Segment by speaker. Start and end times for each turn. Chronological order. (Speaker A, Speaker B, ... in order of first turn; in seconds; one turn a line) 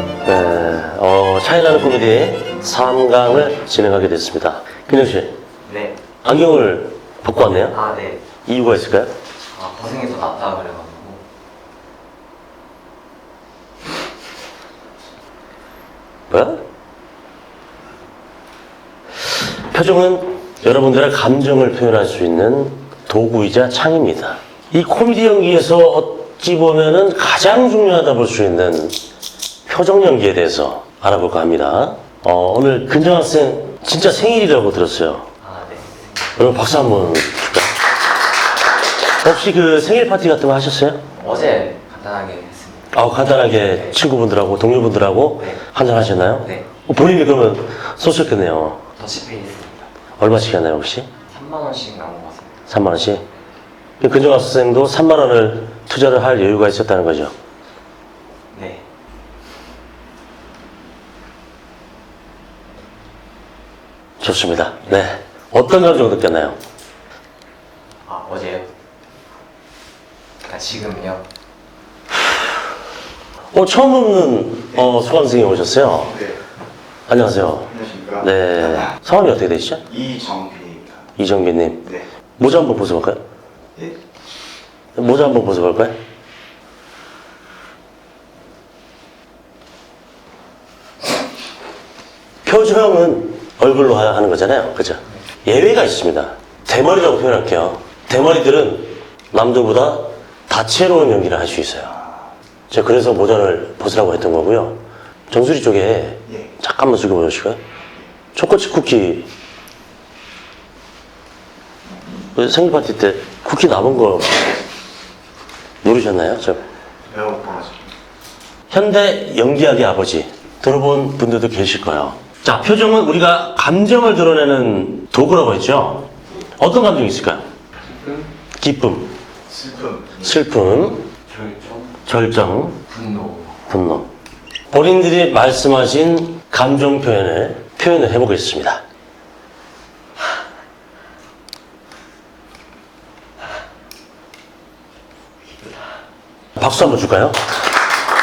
Speaker A: 0.2-5.3
Speaker B: 5.6-6.0
Speaker A: 6.2-7.8
Speaker B: 7.7-8.2
Speaker A: 8.4-9.1
Speaker B: 9.5-11.2
Speaker A: 16.3-16.6
Speaker A: 19.3-29.0
Speaker A: 29.7-35.3
Speaker B: 35.4-36.1
Speaker A: 36.4-37.7
Speaker A: 39.2-41.0
Speaker B: 41.1-44.0
Speaker A: 42.9-48.8
Speaker B: 46.4-46.7
Speaker B: 49.0-49.9
Speaker A: 50.2-51.1
Speaker B: 51.3-52.6
Speaker A: 52.7-53.2
Speaker A: 54.0-57.3
Speaker B: 58.5-58.8
Speaker A: 64.2-66.6
Speaker B: 68.0-68.7
Speaker B: 70.4-71.2
Speaker A: 73.5-76.2
Speaker C: 76.0-76.4
Speaker A: 77.1-79.8
Speaker C: 77.7-78.8
Speaker C: 79.9-81.0
Speaker A: 81.2-83.2
Speaker A: 85.0-86.0
Speaker A: 92.4-102.0
Speaker A: 102.7-107.6
Speaker A: 108.3-109.3
Speaker A: 112.3-114.5
Speaker A: 115.8-116.6
Speaker C: 117.1-117.9
Speaker A: 118.7-127.5
Speaker B: 127.9-128.3
Speaker A: 128.6-129.1
Speaker C: 129.5-130.4
Speaker A: 130.2-131.1
Speaker B: 131.2-132.0
Speaker A: 132.1-132.8
Speaker B: 132.9-133.6
Speaker A: 133.7-134.1
Speaker A: 134.7-138.8
Speaker A: 146.6-147.4